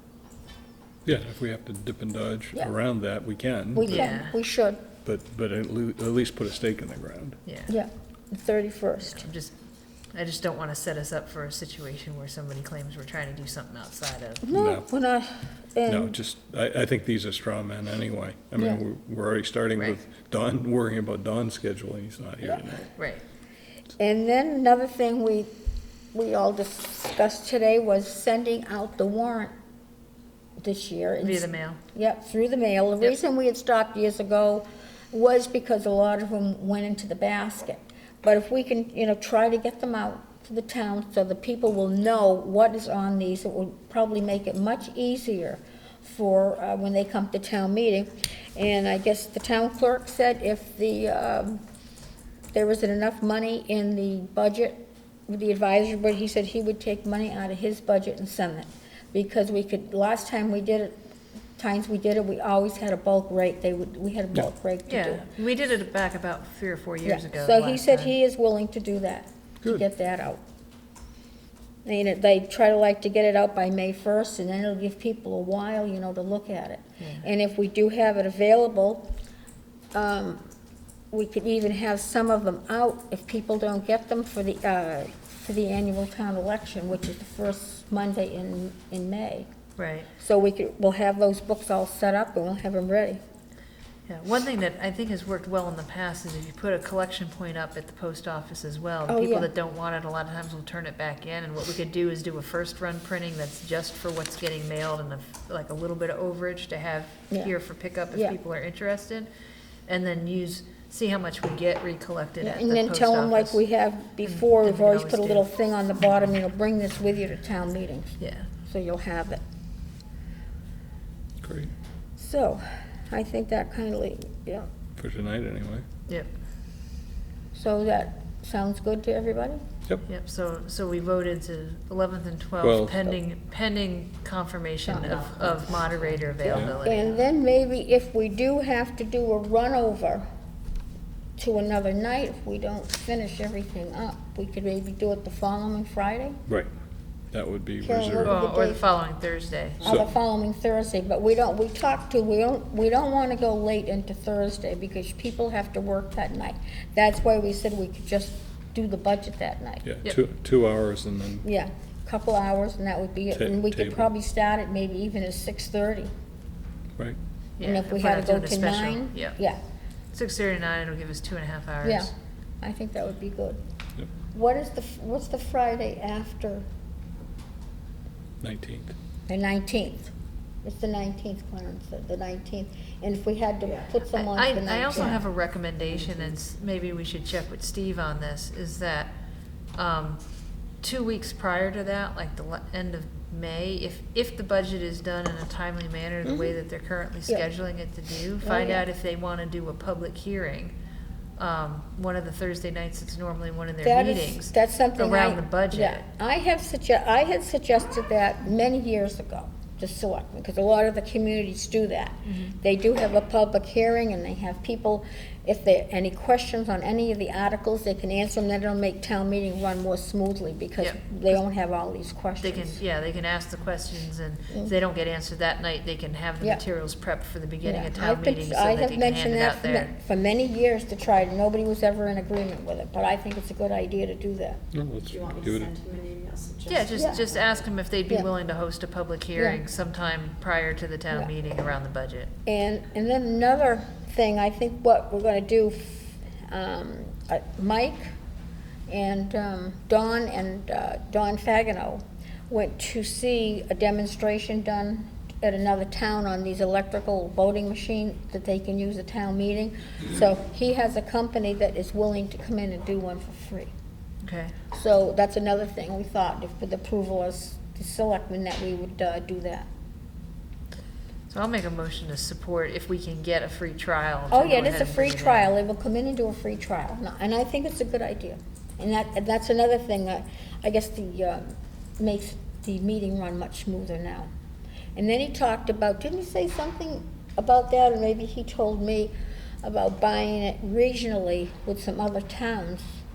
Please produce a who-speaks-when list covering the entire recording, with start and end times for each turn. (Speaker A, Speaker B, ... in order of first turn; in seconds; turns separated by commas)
Speaker A: 1.1-4.0, Speaker B: 3.8-4.8, Speaker C: 3.9-4.3, Speaker A: 5.0-7.4, Speaker C: 7.5-7.7, Speaker B: 7.7-9.3, Speaker C: 9.0-9.5, Speaker C: 10.1-14.5, Speaker B: 14.4-16.2, Speaker A: 14.5-14.9, Speaker A: 15.9-22.9, Speaker C: 23.0-23.2, Speaker B: 24.0-25.5, Speaker B: 26.1-29.5, Speaker B: 30.6-51.6, Speaker C: 31.2-31.8, Speaker B: 52.5-61.0, Speaker B: 61.6-65.3, Speaker C: 64.9-68.1, Speaker B: 67.0-70.4, Speaker B: 71.8-79.1, Speaker C: 77.0-77.3, Speaker B: 79.9-80.5, Speaker B: 81.1-89.5, Speaker C: 89.8-90.1, Speaker B: 90.2-93.2, Speaker C: 94.1-109.3, Speaker B: 99.1-99.5, Speaker C: 109.9-113.6, Speaker B: 112.4-119.4, Speaker C: 114.2-115.5, Speaker C: 118.2-118.5, Speaker A: 121.4-121.7, Speaker B: 122.2-124.7, Speaker A: 125.0-125.8, Speaker B: 127.5-129.6, Speaker C: 130.1-137.2, Speaker A: 132.6-133.1, Speaker B: 134.9-135.6, Speaker B: 136.5-140.2, Speaker A: 136.5-136.8, Speaker B: 141.4-146.4, Speaker A: 147.3-148.4, Speaker B: 147.8-148.8, Speaker C: 148.2-149.9, Speaker B: 149.8-159.8, Speaker A: 159.8-161.4, Speaker B: 161.4-166.1, Speaker A: 163.3-164.1, Speaker C: 167.6-169.4, Speaker B: 167.6-169.6, Speaker C: 170.1-172.1, Speaker B: 171.8-172.1, Speaker B: 172.6-173.6, Speaker B: 174.3-176.7, Speaker A: 178.4-178.9, Speaker B: 179.3-180.1, Speaker B: 180.6-185.2, Speaker C: 184.1-189.1, Speaker C: 189.8-190.2, Speaker C: 190.8-200.7, Speaker B: 196.2-196.6, Speaker B: 198.4-198.9, Speaker C: 201.4-206.0, Speaker B: 203.8-222.8, Speaker C: 212.3-212.5, Speaker C: 220.8-221.4, Speaker C: 222.4-229.9, Speaker B: 227.6-234.6, Speaker A: 234.7-235.8, Speaker D: 235.1-237.7, Speaker C: 236.7-242.3, Speaker B: 237.0-237.2, Speaker B: 242.5-248.1, Speaker B: 248.9-263.7, Speaker C: 264.2-264.6, Speaker B: 264.7-269.7, Speaker C: 271.3-275.5, Speaker B: 274.3-284.3, Speaker B: 284.9-293.0